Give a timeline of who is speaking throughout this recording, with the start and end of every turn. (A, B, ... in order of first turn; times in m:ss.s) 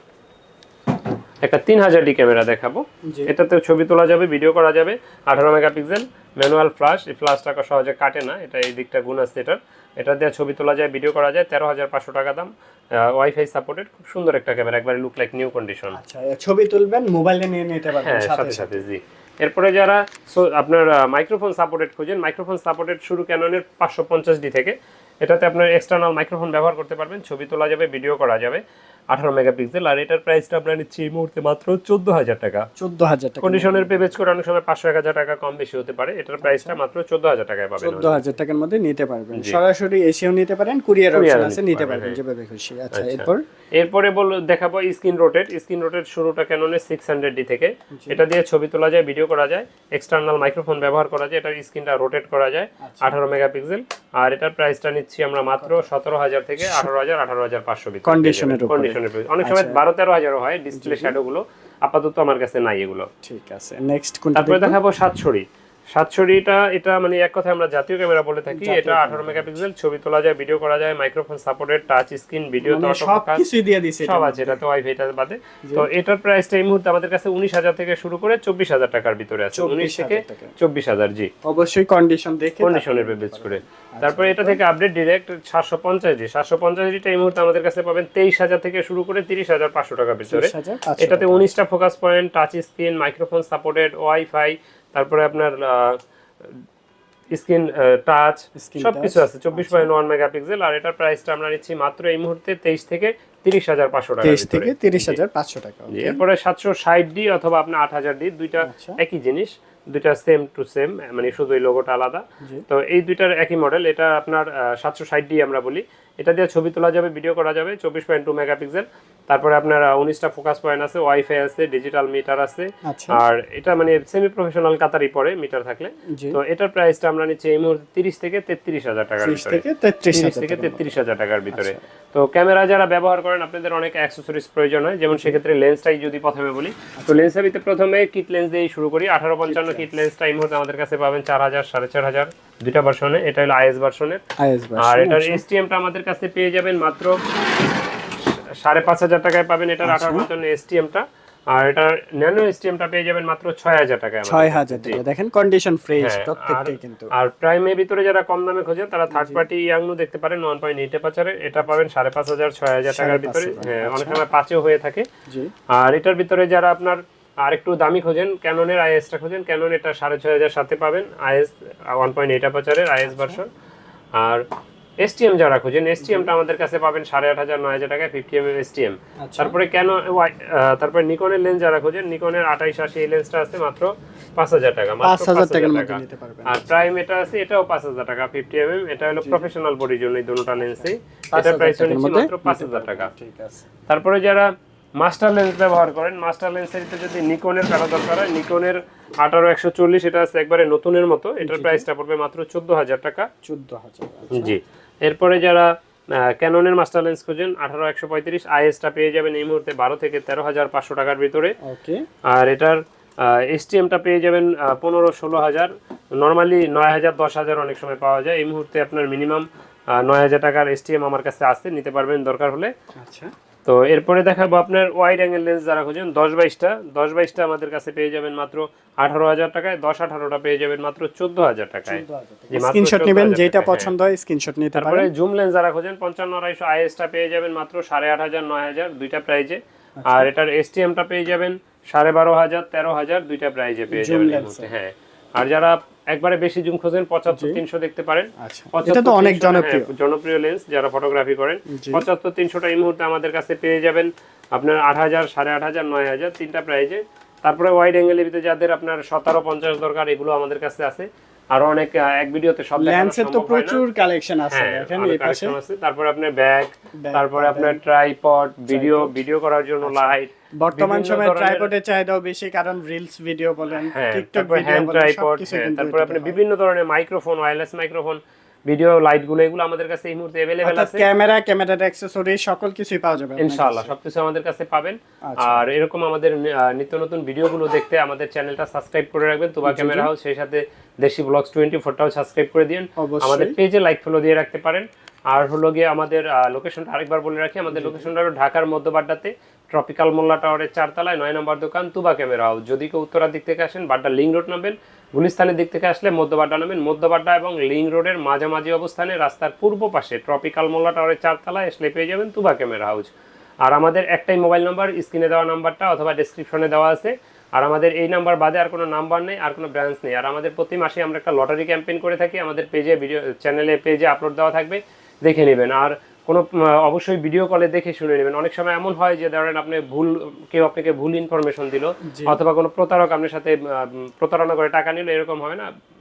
0:01.4-0:16.0 A
0:03.1-0:03.3 B
0:15.9-0:18.8 B
0:17.9-0:32.7 A
0:32.8-0:34.1 B
0:33.4-0:38.2 A
0:36.4-0:36.8 B
0:37.8-0:43.4 B
0:41.1-0:42.2 A
0:42.9-1:03.1 A
0:47.9-0:48.2 B
0:52.8-0:53.2 B
0:55.6-0:55.9 B
0:56.6-0:56.9 B
0:58.0-0:59.8 B
1:00.7-1:01.2 B
1:03.2-1:04.8 B
1:04.4-1:13.4 A
1:08.5-1:09.6 B
1:12.6-1:14.6 B
1:14.0-1:21.3 A
1:19.5-1:20.5 B
1:21.4-1:24.6 B
1:22.6-1:36.0 A
1:30.3-1:31.5 B
1:37.3-1:45.2 A
1:38.6-1:39.9 B
1:44.2-1:46.2 B
1:45.9-2:24.2 A
1:48.6-1:49.0 B
2:02.8-2:03.2 B
2:06.1-2:06.4 B
2:09.2-2:10.9 B
2:11.5-2:11.8 B
2:15.1-2:15.4 B
2:17.0-2:17.3 B
2:19.4-2:19.9 B
2:24.4-2:25.4 B
2:24.8-2:27.2 A
2:28.2-2:35.0 A
2:29.8-2:30.3 B
2:34.2-2:37.1 B
2:36.0-2:45.0 A
2:39.1-2:39.4 B
2:42.9-2:44.2 B
2:45.7-2:53.5 A
2:53.0-2:53.4 B
2:54.2-2:54.4 A
2:55.0-3:13.1 A
2:56.0-2:56.3 B
2:59.2-2:59.6 B
3:05.0-3:06.8 B
3:09.2-3:09.5 B
3:10.6-3:13.7 B
3:13.9-3:14.5 A
3:15.0-3:23.3 A
3:21.4-3:21.9 B
3:23.4-3:24.6 B
3:24.3-3:31.5 A
3:31.6-3:32.0 B
3:32.3-3:42.7 A
3:43.0-3:43.3 B
3:43.6-3:53.9 A
3:51.9-3:55.1 B
3:54.8-4:23.8 A
4:00.0-4:00.3 B
4:03.9-4:04.7 B
4:07.3-4:07.6 B
4:08.4-4:09.9 B
4:11.7-4:12.0 B
4:22.8-4:25.6 B
4:24.5-4:31.7 A
4:27.0-4:27.8 B
4:28.7-4:29.2 B
4:29.8-4:36.4 B
4:33.7-4:41.0 A
4:40.6-4:43.9 B
4:43.4-5:35.7 A
4:45.2-4:45.6 B
4:49.6-4:50.1 B
4:53.0-4:53.6 B
4:57.7-4:58.1 B
5:32.0-5:32.4 B